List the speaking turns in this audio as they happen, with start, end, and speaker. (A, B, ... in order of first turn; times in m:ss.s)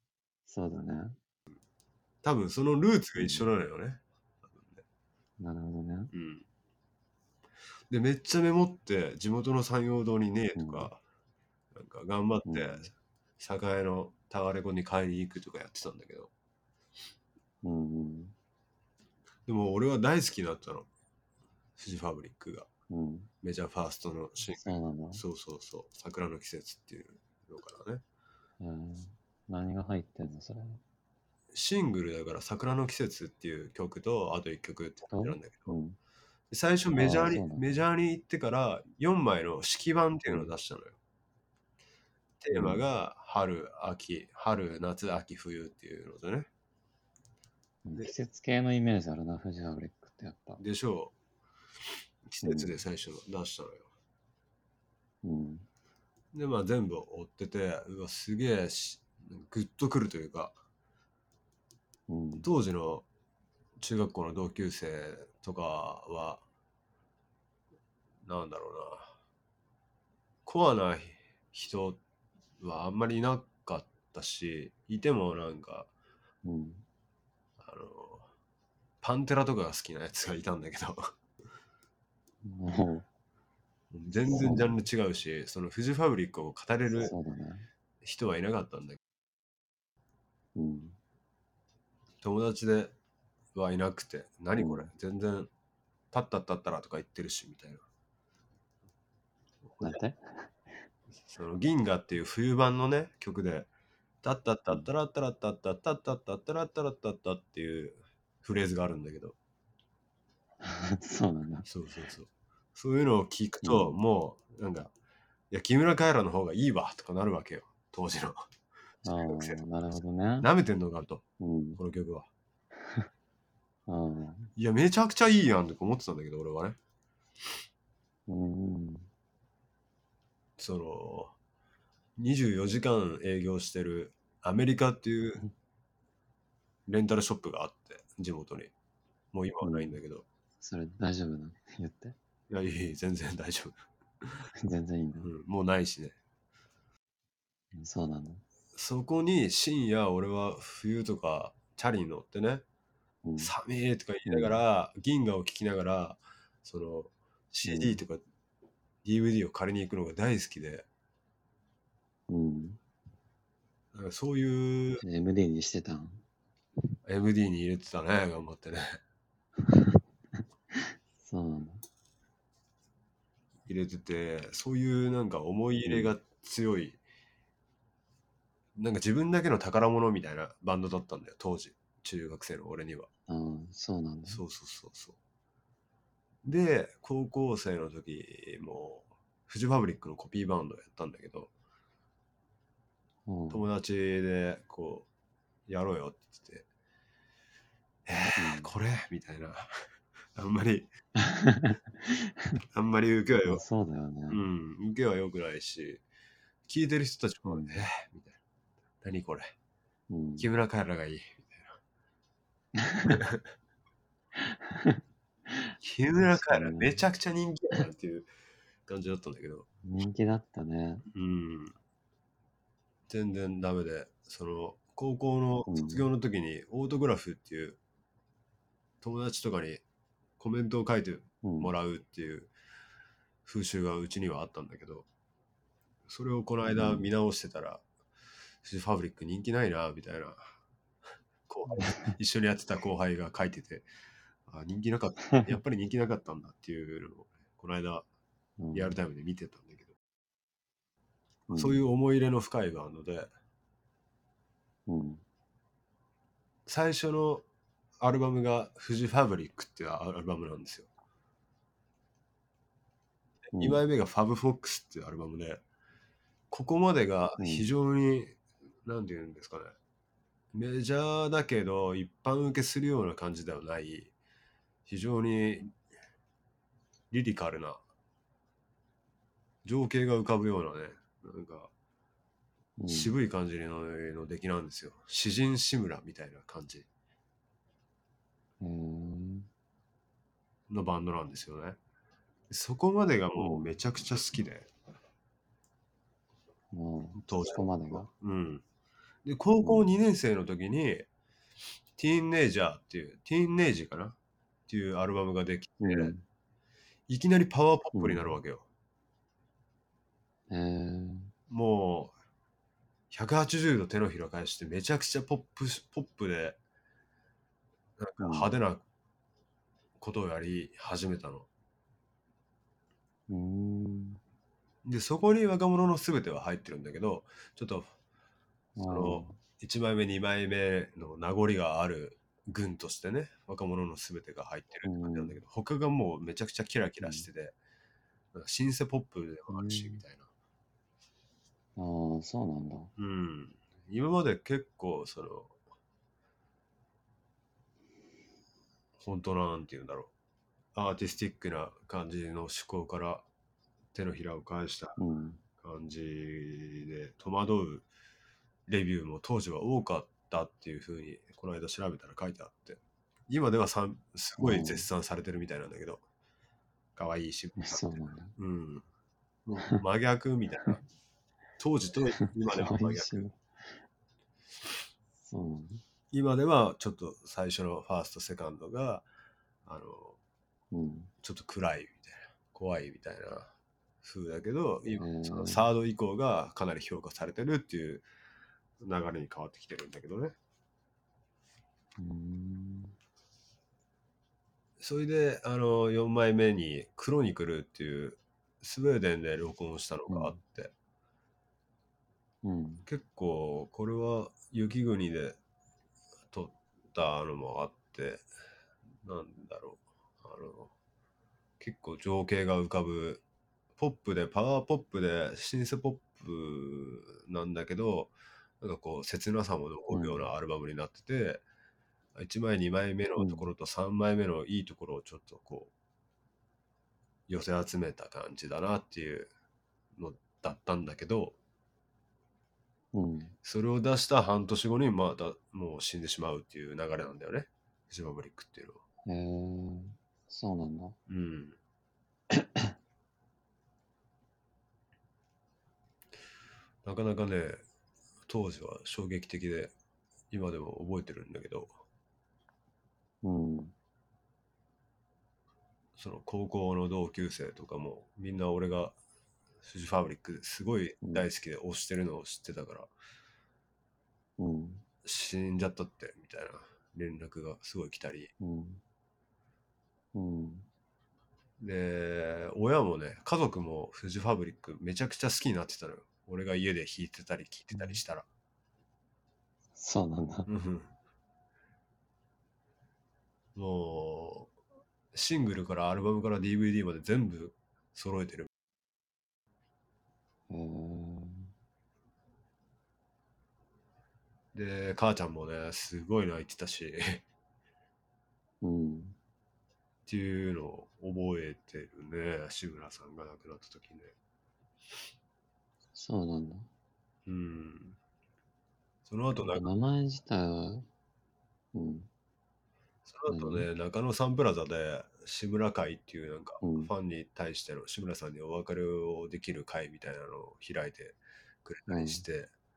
0:00.5-0:01.2 A
0:02.2-0:04.8 B
0:03.2-0:03.5 A
0:05.4-0:06.1 A
0:06.1-0:06.5 B
0:07.9-0:11.0 B
0:10.6-0:10.9 A
0:11.7-0:16.3 B
0:12.5-0:12.9 A
0:17.6-0:18.4 A
0:19.5-0:20.9 B
0:21.8-0:22.7 B
0:22.9-0:23.3 A
0:23.4-0:28.0 B
0:24.6-0:25.2 A
0:28.6-0:30.8 A
0:31.5-0:35.8 B
0:35.1-0:36.0 A
0:36.5-0:41.0 B
0:37.0-0:37.8 A
0:42.4-0:46.5 B
0:42.6-0:42.8 A
0:47.8-0:50.6 A
0:50.6-0:51.2 B
0:52.3-0:53.9 B
0:52.4-0:52.8 A
0:55.2-0:55.7 A
0:56.3-1:00.6 B
1:02.1-1:02.5 A
1:02.4-1:03.1 B
1:03.8-1:06.4 B
1:08.2-1:09.2 B
1:10.5-1:12.0 B
1:12.6-1:15.9 B
1:16.4-1:16.9 A
1:17.6-1:18.3 B
1:19.0-1:21.1 B
1:22.4-1:23.1 A
1:23.9-1:27.2 B
1:24.3-1:24.8 A
1:26.9-1:27.7 A
1:28.0-1:29.0 B
1:30.6-1:31.0 A
1:32.2-1:33.0 B
1:33.5-1:35.5 B
1:34.6-1:34.9 A
1:36.1-1:37.8 B
1:39.7-1:40.0 B
1:39.8-1:40.5 A
1:41.2-1:43.7 B
1:44.2-1:49.4 B
1:50.6-1:51.7 A
1:51.6-1:54.9 B
1:53.6-1:54.0 A
1:55.5-1:58.4 B
1:59.0-1:59.6 B
1:59.0-2:00.5 A
2:00.4-2:01.2 B
2:01.4-2:01.8 A
2:01.8-2:02.3 B
2:03.9-2:04.5 A
2:04.6-2:06.8 B
2:08.3-2:09.1 A
2:10.6-2:11.4 B
2:12.2-2:15.5 B
2:16.9-2:18.7 B
2:19.3-2:20.3 B
2:19.6-2:20.0 A
2:20.6-2:22.2 A
2:22.5-2:23.8 B
2:24.6-2:25.3 A
2:25.2-2:26.2 B
2:27.7-2:28.4 A
2:28.7-2:32.6 B
2:33.2-2:33.5 A
2:33.4-2:38.2 B
2:34.3-2:34.6 A
2:37.6-2:38.0 A
2:39.0-2:40.9 B
2:42.3-2:42.8 A
2:43.9-2:45.0 B
2:45.0-2:46.2 A
2:47.1-2:49.0 B
2:49.6-2:50.0 A
2:50.7-2:51.8 A
2:53.7-2:57.0 B
2:55.8-2:56.1 A
2:58.8-3:03.1 B
3:03.3-3:04.4 A
3:04.3-3:05.2 B
3:06.4-3:11.5 B
3:13.3-3:13.6 A
3:13.5-3:15.1 B
3:15.7-3:16.7 B
3:18.1-3:19.7 B
3:18.4-3:18.7 A
3:20.4-3:20.9 B
3:21.2-3:22.6 A
3:22.7-3:23.6 B
3:23.4-3:24.4 A
3:24.3-3:26.0 B
3:26.7-3:28.4 B
3:27.5-3:27.8 A
3:29.0-3:29.5 B
3:30.1-3:30.5 A
3:30.4-3:31.8 B
3:32.8-3:33.2 A
3:33.1-3:33.4 B
3:34.4-3:37.0 A
3:35.8-3:38.3 B
3:38.9-3:39.7 B
3:39.8-3:41.1 A
3:41.1-3:41.8 B
3:43.1-3:47.8 B
3:45.7-3:46.1 A
3:49.0-3:49.8 B
3:50.4-3:52.5 B
3:51.4-3:51.7 A
3:53.4-3:55.1 B
3:56.1-3:57.8 B
3:56.7-3:57.1 A
3:58.6-4:00.5 B
4:01.5-4:03.9 B
4:01.7-4:02.1 A
4:04.5-4:08.1 B
4:08.6-4:09.0 A
4:08.7-4:09.9 B
4:11.5-4:11.9 A
4:11.5-4:13.3 B
4:14.9-4:15.2 A
4:16.7-4:17.4 B
4:18.0-4:20.9 B
4:23.5-4:25.6 B
4:23.5-4:23.8 A
4:26.5-4:29.8 B
4:27.4-4:27.7 A
4:30.5-4:34.1 B
4:34.9-4:35.8 B
4:37.1-4:37.8 B
4:39.6-4:41.7 B
4:42.8-4:43.2 A
4:42.9-4:46.9 B
4:48.6-4:49.5 A
4:50.7-4:51.8 B
4:52.5-4:54.7 B
4:53.4-4:53.7 A
4:56.7-4:58.1 A
4:57.2-4:58.6 B
4:59.2-5:01.1 B
4:59.6-5:00.0 A
5:02.0-5:04.2 B
5:04.7-5:06.1 B
5:05.8-5:06.2 A
5:07.1-5:08.7 B
5:07.9-5:08.4 A
5:10.5-5:11.3 A
5:11.5-5:12.1 B
5:13.1-5:16.6 B
5:18.0-5:18.8 B
5:18.2-5:18.5 A
5:20.0-5:21.5 B
5:23.3-5:24.2 A
5:24.8-5:27.9 B
5:28.8-5:29.4 A
5:28.8-5:37.6 B
5:34.8-5:35.4 A
5:37.0-5:37.3 A
5:38.3-5:40.3 B
5:39.5-5:40.0 A
5:41.8-5:42.9 A
5:43.0-5:45.6 B
5:49.0-5:50.1 B
5:50.8-5:53.3 B
5:53.9-5:55.0 B
5:55.0-5:55.4 A
5:55.6-5:57.9 B
5:58.7-6:06.0 B
6:04.4-6:04.9 A
6:07.0-6:08.9 B
6:07.6-6:08.3 A
6:09.5-6:10.8 B
6:11.6-6:13.3 B
6:12.4-6:13.4 A
6:15.2-6:15.8 A
6:16.1-6:19.1 B
6:19.6-6:20.2 B
6:20.7-6:21.1 A
6:21.2-6:28.1 B
6:25.0-6:25.7 A
6:28.8-6:30.4 B
6:32.0-6:33.0 A
6:34.8-6:40.7 B
6:40.1-6:40.4 A
6:42.4-6:42.9 A
6:42.9-6:45.4 B
6:46.3-6:48.2 B
6:49.0-6:50.7 B
6:51.6-6:53.2 B
6:53.8-7:01.4 B
6:59.9-7:00.3 A
7:02.2-7:05.7 B
7:03.2-7:03.5 A
7:07.3-7:09.3 B
7:10.0-7:11.4 B
7:12.9-7:13.4 A
7:13.4-7:18.8 B
7:19.1-7:21.0 A
7:21.1-7:21.6 B
7:22.3-7:22.7 A
7:26.8-7:27.6 B
7:28.3-7:29.7 B
7:30.3-7:31.7 B
7:33.2-7:33.7 A
7:36.0-7:39.0 B
7:39.6-7:42.9 B
7:41.0-7:41.3 A
7:44.4-7:44.8 A
7:45.0-7:48.3 B
7:48.4-7:48.8 A
7:50.1-7:50.7 A
7:51.6-7:58.3 B
7:57.7-7:58.0 A
7:59.8-8:00.5 A
8:00.5-8:00.9 B
8:03.6-8:04.5 B
8:05.1-8:08.5 B
8:10.5-8:11.5 A
8:14.5-8:17.3 B
8:18.6-8:19.2 A
8:20.1-8:24.1 B
8:25.9-8:26.7 A
8:27.3-8:28.0 B
8:29.1-8:29.7 B
8:29.4-8:30.9 A
8:31.7-8:32.1 A
8:33.1-8:42.5 B
8:33.3-8:33.7 A
8:36.6-8:36.9 A
8:41.9-8:42.2 A